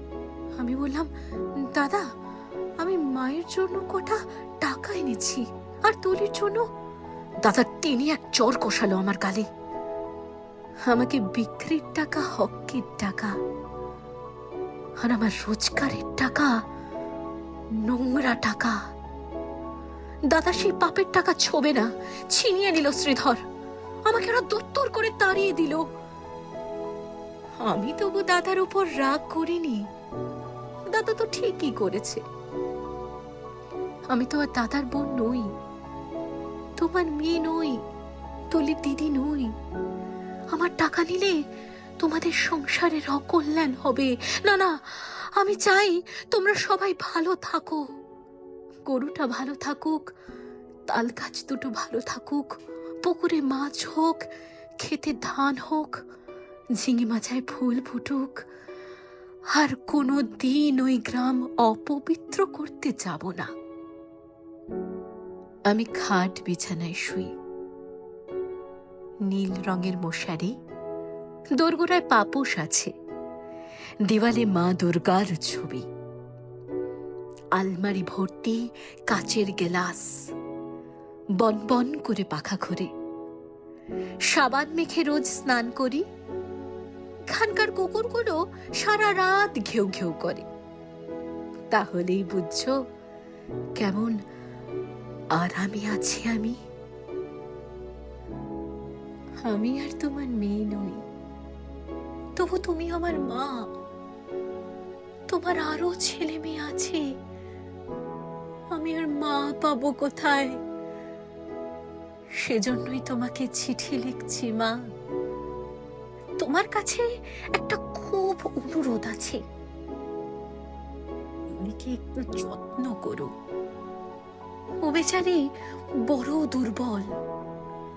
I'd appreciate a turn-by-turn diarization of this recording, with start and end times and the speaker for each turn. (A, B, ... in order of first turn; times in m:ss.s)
0:00.6-0:02.0 A
0:02.8-0:06.6 A
0:07.4-0:09.5 A
0:10.8-0:13.4 A
0:15.0-0:16.6 A
0:17.7-0:18.8 A
0:20.3-0:23.4 A
0:24.0-0:25.8 A
0:27.6-0:29.8 A
0:30.9-0:32.2 A
0:34.1-0:35.5 A
0:36.8-0:37.8 A
0:38.5-0:39.5 A
0:40.5-0:41.4 A
0:42.0-0:47.8 A
0:48.8-0:50.0 A
0:50.9-0:52.5 A
0:53.0-0:54.2 A
0:54.8-0:56.0 A
0:56.8-0:58.4 A
0:59.5-1:03.5 A
1:05.7-1:07.3 A
1:09.2-1:10.5 A
1:11.6-1:12.9 A
1:14.0-1:15.8 A
1:17.5-1:20.2 A
1:21.4-1:22.9 A
1:24.3-1:26.0 A
1:27.3-1:30.5 A
1:31.7-1:32.8 A
1:33.8-1:34.1 A
1:35.3-1:36.6 A
1:39.4-1:41.0 A
1:42.4-1:43.6 A
1:45.3-1:47.0 A
1:48.7-1:50.6 A
1:52.4-1:54.8 A
1:56.4-1:59.4 A
2:01.5-2:03.3 A
2:04.8-2:05.5 A
2:06.0-2:07.1 A